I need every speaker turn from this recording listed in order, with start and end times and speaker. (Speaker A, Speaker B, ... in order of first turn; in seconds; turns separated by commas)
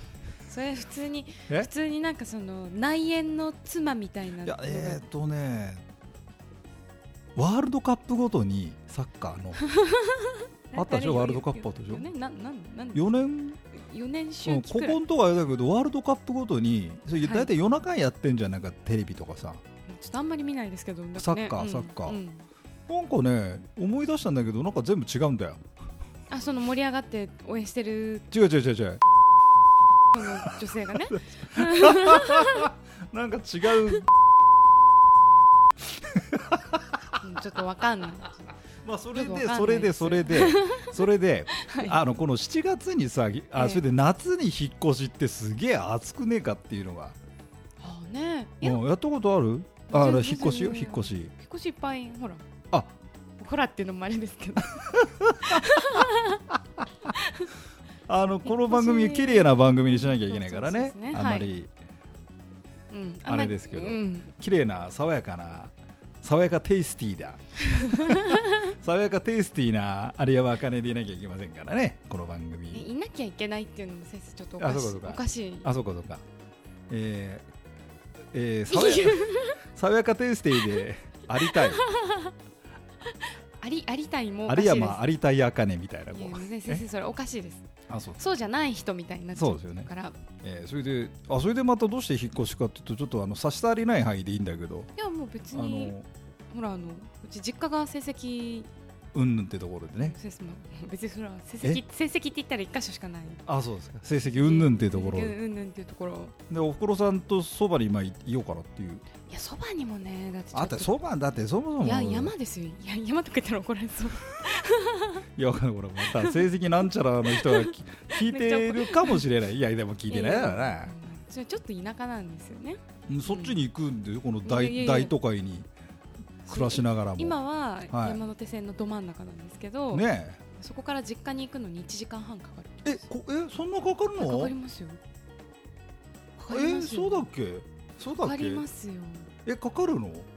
Speaker A: 0.4-5.0, Speaker B: 4.4-5.8, Speaker B: 7.4-9.6, Speaker A: 9.6-13.1, Speaker B: 10.7-12.1, Speaker B: 12.9-13.6, Speaker A: 13.7-15.0, Speaker B: 14.4-19.6, Speaker A: 17.2-17.5, Speaker A: 19.9-22.5, Speaker B: 21.2-22.2, Speaker B: 22.9-25.6, Speaker A: 26.3-28.3, Speaker B: 28.3-29.0, Speaker A: 30.1-32.7, Speaker B: 31.3-34.1, Speaker B: 35.9-37.2, Speaker A: 37.2-38.5, Speaker B: 38.8-47.2, Speaker A: 39.1-42.0, Speaker A: 43.5-43.8, Speaker A: 47.8-48.8, Speaker B: 48.6-51.3, Speaker A: 49.9-52.4, Speaker A: 53.4-54.9, Speaker B: 54.8-55.6, Speaker A: 55.4-56.5, Speaker A: 57.1-57.5, Speaker B: 58.1-61.7, Speaker A: 58.5-61.5, Speaker A: 62.9-64.3, Speaker B: 63.3-72.9, Speaker A: 67.7-68.7, Speaker A: 72.7-75.7, Speaker B: 74.6-76.2, Speaker B: 76.9-77.5, Speaker B: 78.3-81.9, Speaker A: 78.7-79.6, Speaker A: 81.3-82.3, Speaker A: 83.1-85.0, Speaker B: 84.5-86.8, Speaker A: 86.1-87.7, Speaker B: 87.9-88.2, Speaker A: 88.2-90.2, Speaker B: 89.3-89.9, Speaker B: 90.4-94.9, Speaker A: 95.0-96.0, Speaker B: 95.5-96.1, Speaker A: 96.5-98.7, Speaker B: 99.1-100.2, Speaker A: 100.0-103.5, Speaker B: 103.5-105.4, Speaker A: 104.3-106.3, Speaker B: 106.5-109.1, Speaker A: 109.3-110.9, Speaker B: 110.5-112.3, Speaker A: 111.8-115.2, Speaker B: 115.4-120.9, Speaker A: 116.0-116.5, Speaker A: 117.3-119.2, Speaker A: 120.1-123.6, Speaker B: 123.1-125.7, Speaker A: 124.4-125.1, Speaker B: 126.5-128.2, Speaker A: 126.5-133.0, Speaker B: 129.9-130.4, Speaker B: 132.8-134.6, Speaker A: 134.2-135.0, Speaker A: 136.4-137.3, Speaker B: 136.5-138.7, Speaker A: 138.2-139.3, Speaker B: 139.5-140.3